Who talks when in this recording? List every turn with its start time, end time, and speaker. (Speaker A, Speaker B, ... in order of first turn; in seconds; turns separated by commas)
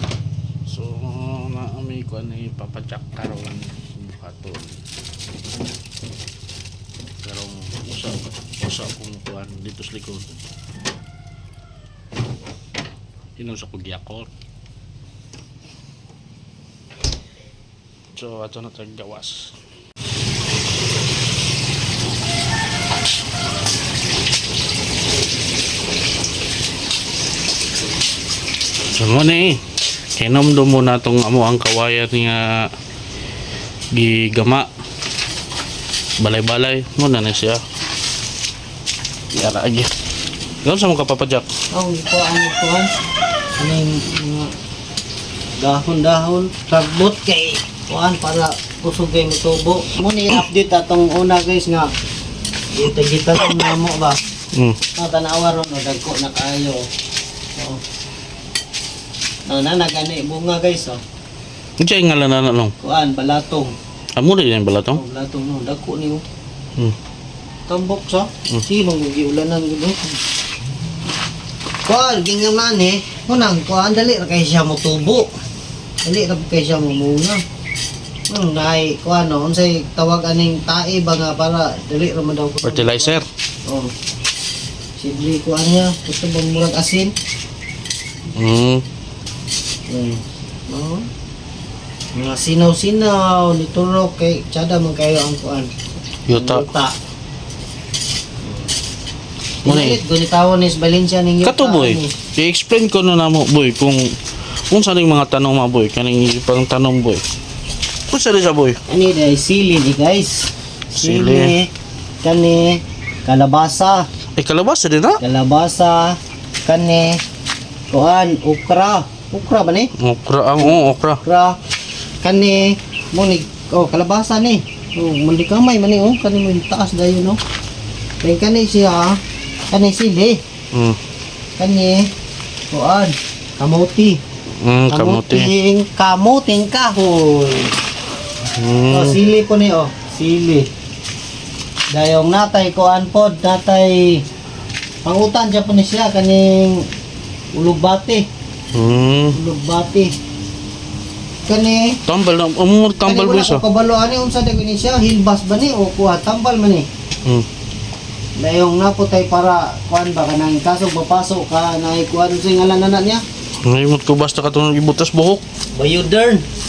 Speaker A: 0.7-4.8, Speaker A: 7.2-10.3, Speaker A: 13.4-14.3, Speaker A: 18.1-19.5, Speaker A: 29.0-29.6, Speaker A: 30.2-32.7, Speaker A: 33.9-34.7, Speaker A: 36.2-37.6, Speaker A: 39.3-39.9, Speaker A: 40.6-41.5, Speaker B: 41.7-42.9, Speaker B: 43.6-44.5, Speaker B: 45.6-51.9, Speaker B: 52.7-54.2, Speaker A: 54.5-54.8, Speaker B: 54.9-56.9, Speaker B: 59.5-61.0, Speaker A: 61.8-62.7, Speaker B: 62.8-63.7, Speaker A: 64.2-65.0, Speaker B: 64.9-66.2, Speaker B: 67.7-70.2, Speaker B: 71.8-75.3, Speaker B: 76.0-77.4, Speaker B: 78.3-83.9, Speaker A: 82.6-83.2, Speaker B: 85.0-87.1, Speaker A: 88.3-88.8, Speaker B: 89.9-91.0, Speaker B: 92.1-95.7, Speaker A: 96.3-96.7, Speaker B: 96.3-96.9, Speaker A: 99.6-100.0, Speaker B: 99.6-102.1, Speaker A: 101.4-104.0, Speaker A: 104.7-107.2, Speaker A: 108.1-108.8, Speaker B: 108.9-111.7, Speaker A: 111.0-111.5, Speaker B: 112.2-114.1, Speaker A: 114.4-115.2, Speaker B: 115.2-117.2, Speaker B: 117.9-119.9, Speaker A: 120.0-121.2, Speaker B: 120.6-121.6, Speaker B: 122.2-127.4, Speaker B: 128.2-129.2, Speaker B: 129.7-130.4, Speaker A: 130.7-131.0, Speaker B: 131.6-132.1, Speaker B: 132.7-134.2, Speaker A: 134.6-135.5, Speaker B: 134.9-137.7, Speaker A: 138.6-139.2, Speaker B: 138.9-140.7, Speaker B: 141.9-144.2, Speaker B: 145.0-146.8, Speaker B: 147.5-148.2, Speaker A: 148.7-149.3, Speaker B: 149.3-150.1, Speaker B: 151.4-152.0, Speaker A: 152.1-153.6, Speaker B: 153.0-156.9, Speaker B: 158.4-163.2, Speaker A: 163.6-165.4, Speaker B: 165.7-166.4